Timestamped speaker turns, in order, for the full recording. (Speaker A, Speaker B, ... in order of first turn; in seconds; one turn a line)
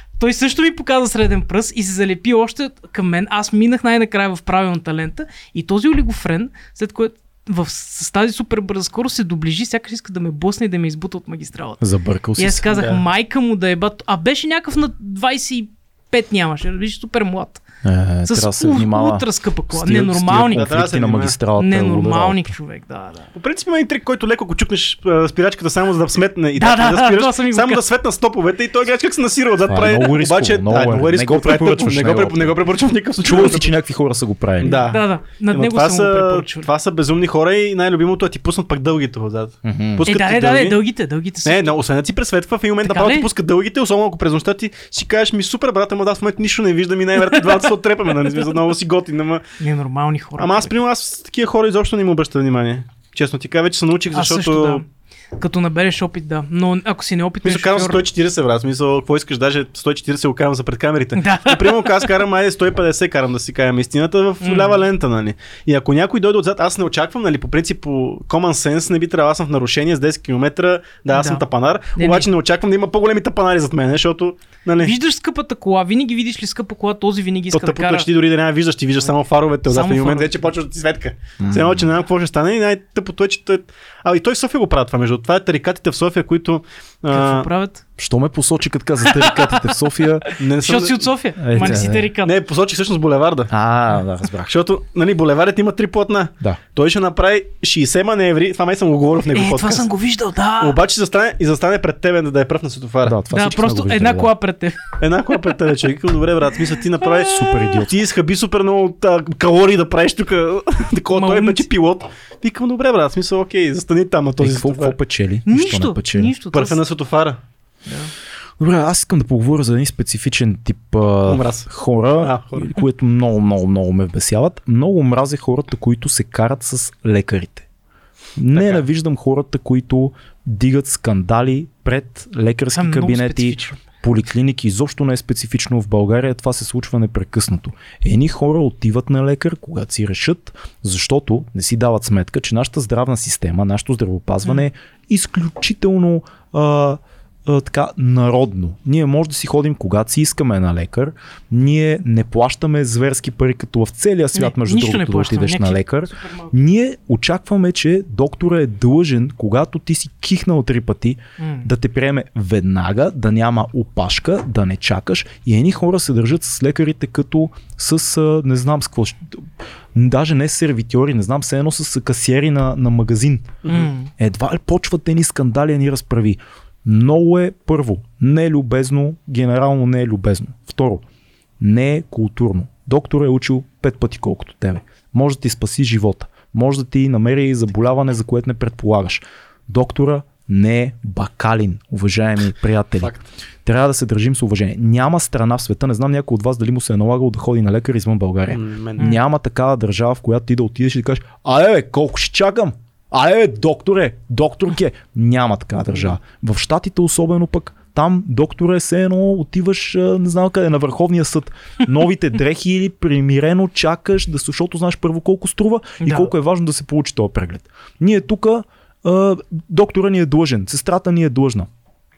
Speaker A: 0.2-11.8
Speaker B: 11.8-12.9
Speaker A: 12.4-17.6
Speaker B: 17.8-22.5
Speaker A: 18.3-20.7
Speaker C: 20.5-21.4
Speaker A: 21.6-23.3
Speaker C: 23.3-33.7
Speaker A: 26.6-27.8
Speaker B: 29.7-32.6
Speaker B: 33.2-34.9
Speaker C: 34.6-40.8
Speaker A: 34.6-36.7
Speaker B: 39.6-40.0
Speaker A: 40.0-41.8
Speaker C: 41.4-49.4
Speaker A: 42.8-43.3
Speaker A: 49.6-50.7
Speaker C: 50.4-54.8
Speaker A: 54.1-58.0
Speaker C: 57.4-74.9
Speaker A: 61.2-62.1
Speaker A: 64.4-64.9
Speaker A: 71.1-71.4
Speaker A: 72.0-72.3
Speaker A: 74.8-78.1
Speaker C: 77.5-87.5
Speaker A: 79.7-80.5
Speaker B: 81.4-81.9
Speaker A: 87.1-87.8
Speaker B: 88.0-90.3
Speaker A: 89.0-89.7
Speaker A: 90.3-92.3
Speaker C: 90.4-91.1
Speaker B: 91.4-92.1
Speaker C: 92.2-93.5
Speaker B: 93.5-94.5
Speaker C: 94.5-99.9
Speaker A: 99.3-100.8
Speaker C: 100.6-103.2
Speaker B: 103.0-104.3
Speaker A: 103.3-104.8
Speaker C: 105.0-115.0
Speaker A: 107.1-107.8
Speaker B: 107.2-108.0
Speaker A: 111.1-111.7
Speaker B: 114.4-116.3
Speaker A: 115.5-116.8
Speaker C: 116.5-117.4
Speaker A: 117.9-118.1
Speaker B: 118.6-127.7
Speaker C: 121.3-122.7
Speaker B: 128.4-173.6
Speaker C: 128.5-128.8
Speaker A: 132.7-133.8
Speaker A: 154.3-156.5
Speaker A: 161.4-161.7
Speaker C: 173.6-173.9
Speaker A: 173.7-174.1
Speaker B: 174.2-181.0
Speaker B: 181.6-193.1
Speaker C: 193.0-193.3
Speaker B: 193.6-221.7
Speaker C: 198.5-199.1
Speaker A: 216.0-216.3